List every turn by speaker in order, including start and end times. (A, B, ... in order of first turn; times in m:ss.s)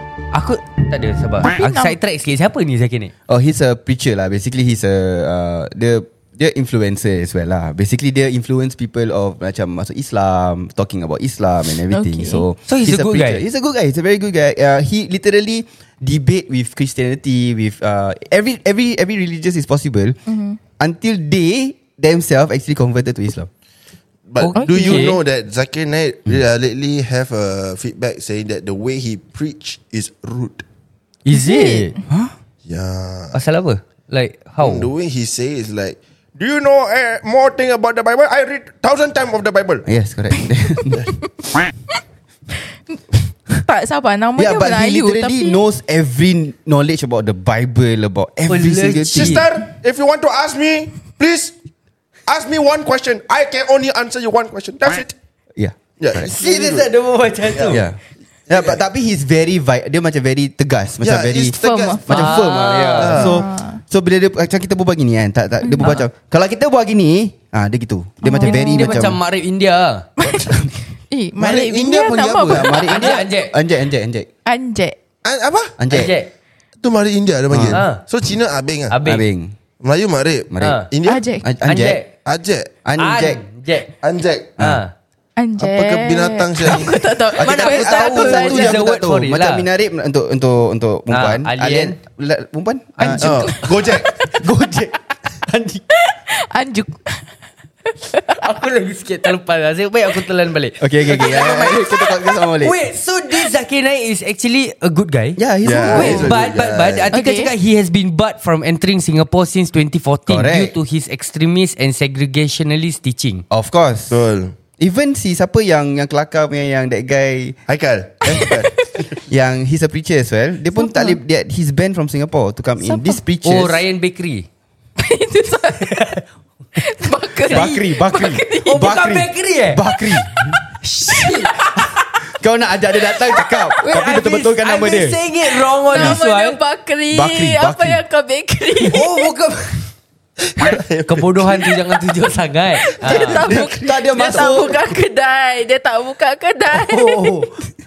0:00.3-0:03.1 A
0:01.4-0:02.0 B
0:03.3-0:20.2 C
0:11.9-0:12.4 B
0:12.7-0:13.4 A
0:20.3-0:20.6 B
0:20.8-0:23.5 C
0:24.3-0:30.6 D
0:24.4-0:25.2 A
0:24.6-0:25.1 B
0:31.2-0:32.0 A
0:31.3-0:31.9 B
0:32.7-0:33.4 D
0:33.3-0:34.9 A
0:34.6-0:39.8 D
0:39.9-0:41.1 C
0:43.6-0:45.6 B
0:44.4-0:49.5 C
0:48.5-0:49.4 A
0:49.1-0:51.5 D
0:52.3-0:55.1 D
0:55.6-0:56.4 C
0:56.0-0:56.9 D
0:56.4-0:57.8 A
0:57.5-0:57.8 D
0:57.7-1:09.2 C
0:58.5-0:58.8 D
1:01.0-1:02.2 D
1:01.6-1:02.4 B
1:02.1-1:03.2 A
1:03.0-1:03.5 D
1:03.2-1:03.8 B
1:05.6-1:06.0 B
1:08.2-1:09.1 B
1:08.4-1:10.1 A
1:10.2-1:13.2 B
1:10.3-1:10.7 C
1:11.4-1:12.7 D
1:12.5-1:14.3 C
1:12.9-1:13.6 A
1:14.5-1:15.0 B
1:15.2-1:15.7 D
1:15.8-1:16.1 C
1:15.9-1:16.3 A
1:16.8-1:19.0 D
1:17.5-1:17.8 C
1:17.7-1:18.0 A
1:18.9-1:19.2 A
1:19.0-1:19.5 C
1:19.8-1:21.2 D
1:20.5-1:20.8 C
1:20.6-1:20.9 A
1:21.1-1:21.5 B
1:21.4-1:22.0 C
1:21.7-1:22.1 A
1:22.2-1:22.7 D
1:22.8-1:23.4 C
1:23.0-1:23.9 A
1:24.0-1:24.6 D
1:24.6-1:24.9 A
1:25.4-1:28.8 B
1:25.6-1:27.1 D
1:27.4-1:33.6 C
1:27.4-1:29.7 A
1:31.1-1:32.0 A
1:33.0-1:33.7 A
1:33.2-1:34.1 D
1:33.8-1:34.4 B
1:34.3-1:35.8 C
1:35.9-1:37.2 B
1:38.0-1:38.4 B
1:38.3-1:53.4 A
1:40.8-1:42.8 C
1:45.4-1:46.4 C
1:45.6-1:47.1 D
1:47.1-1:47.5 B
1:50.3-1:50.8 C
1:53.5-1:54.2 C
1:54.1-1:54.6 D
1:54.8-1:57.6 C
1:57.7-1:59.0 D
1:58.3-1:58.8 B
1:59.3-2:03.8 C
2:00.8-2:01.2 B
2:02.8-2:03.2 B
2:03.4-2:04.5 A
2:05.0-2:06.0 B
2:05.8-2:06.2 A
2:06.8-2:08.9 B
2:07.5-2:10.6 C
2:08.6-2:09.8 A
2:10.8-2:11.9 A
2:12.4-2:15.2 C
2:13.8-2:16.6 A
2:15.9-2:19.3 B
2:15.9-2:16.2 C
2:17.1-2:18.0 C
2:18.8-2:19.8 A
2:20.6-2:21.8 D
2:21.1-2:23.5 A
2:23.0-2:27.4 B
2:23.0-2:24.9 C
2:26.7-2:27.5 A